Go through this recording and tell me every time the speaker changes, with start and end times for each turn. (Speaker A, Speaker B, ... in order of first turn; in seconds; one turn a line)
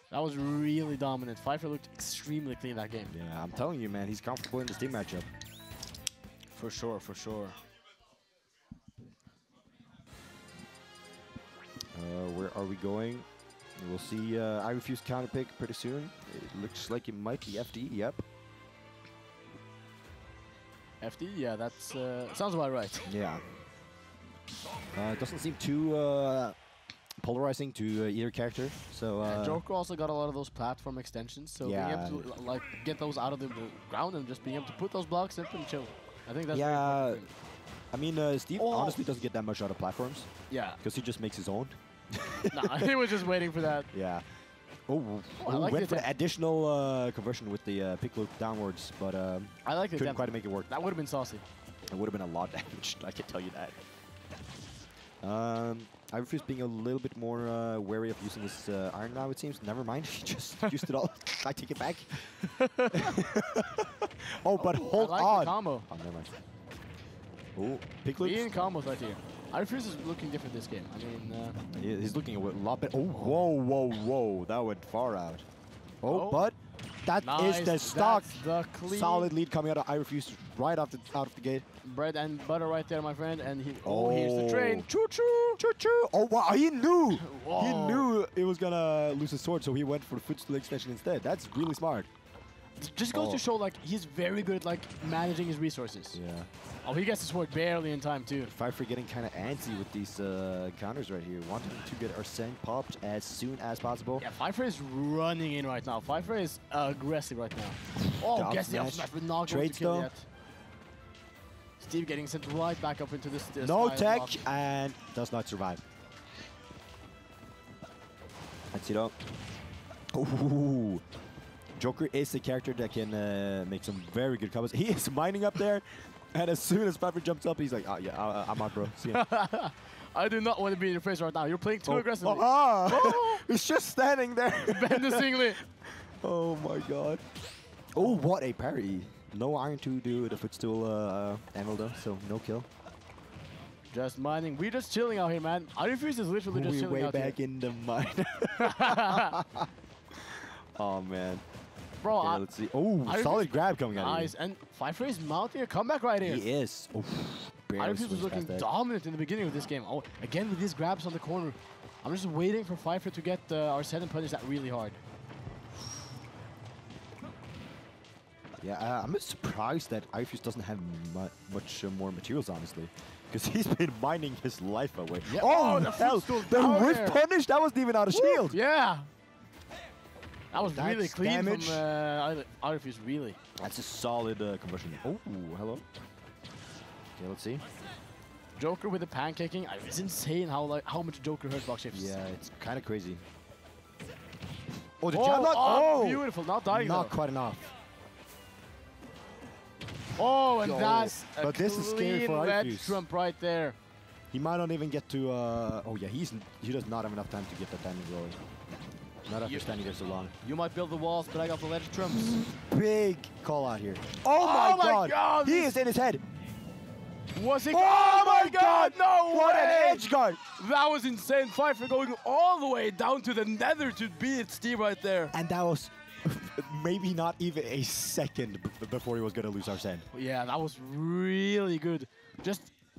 Speaker A: 0.1-3.1
Speaker B: 3.1-5.3
Speaker A: 6.5-7.5
Speaker B: 11.9-18.2
Speaker A: 21.0-23.1
Speaker B: 23.1-23.4
Speaker B: 24.9-26.5
Speaker B: 27.2-29.6
Speaker A: 29.2-37.3
Speaker B: 31.6-32.3
Speaker B: 36.5-37.2
Speaker B: 37.9-40.3
Speaker A: 38.6-39.0
Speaker A: 40.5-40.8
Speaker B: 40.8-43.2
Speaker A: 42.5-43.9
Speaker B: 43.9-44.2
Speaker B: 44.9-50.7
Speaker A: 45.4-46.1
Speaker A: 49.6-51.4
Speaker B: 51.9-53.8
Speaker B: 55.2-66.3
Speaker A: 62.5-63.1
Speaker A: 64.6-65.9
Speaker B: 67.5-68.5
Speaker A: 68.2-71.6
Speaker B: 71.7-75.4
Speaker B: 76.0-81.6
Speaker A: 76.1-76.5
Speaker A: 77.2-79.3
Speaker A: 81.8-84.9
Speaker B: 83.8-92.1
Speaker A: 87.1-88.1
Speaker A: 92.8-96.2
Speaker B: 93.1-93.4
Speaker B: 96.1-96.5
Speaker A: 96.8-98.5
Speaker B: 98.5-104.2
Speaker A: 104.2-110.2
Speaker B: 108.1-110.1
Speaker A: 111.8-114.4
Speaker B: 113.6-115.8
Speaker B: 118.7-119.1
Speaker B: 120.1-121.0
Speaker B: 121.8-129.2
Speaker A: 129.1-133.4
Speaker B: 131.8-137.2
Speaker A: 134.7-135.6
Speaker B: 137.9-142.7
Speaker A: 143.9-147.4
Speaker B: 146.5-151.4
Speaker A: 148.6-149.4
Speaker A: 152.0-152.4
Speaker B: 152.2-154.3
Speaker A: 153.0-156.4
Speaker B: 156.2-158.7
Speaker A: 157.8-165.0
Speaker B: 168.6-178.6
Speaker A: 175.3-177.2
Speaker A: 178.1-179.1
Speaker A: 180.5-183.4
Speaker B: 180.5-181.8
Speaker B: 183.6-185.8
Speaker B: 187.2-187.6
Speaker A: 188.6-192.2
Speaker B: 191.9-193.2
Speaker B: 195.0-197.7
Speaker A: 195.1-197.1
Speaker A: 200.2-203.8
Speaker B: 200.6-203.0
Speaker B: 204.3-208.4
Speaker B: 209.2-210.3
Speaker A: 210.4-212.5
Speaker B: 212.4-216.2
Speaker A: 214.3-215.7
Speaker A: 217.3-225.3
Speaker B: 217.7-220.4
Speaker B: 225.3-230.0
Speaker A: 230.1-232.7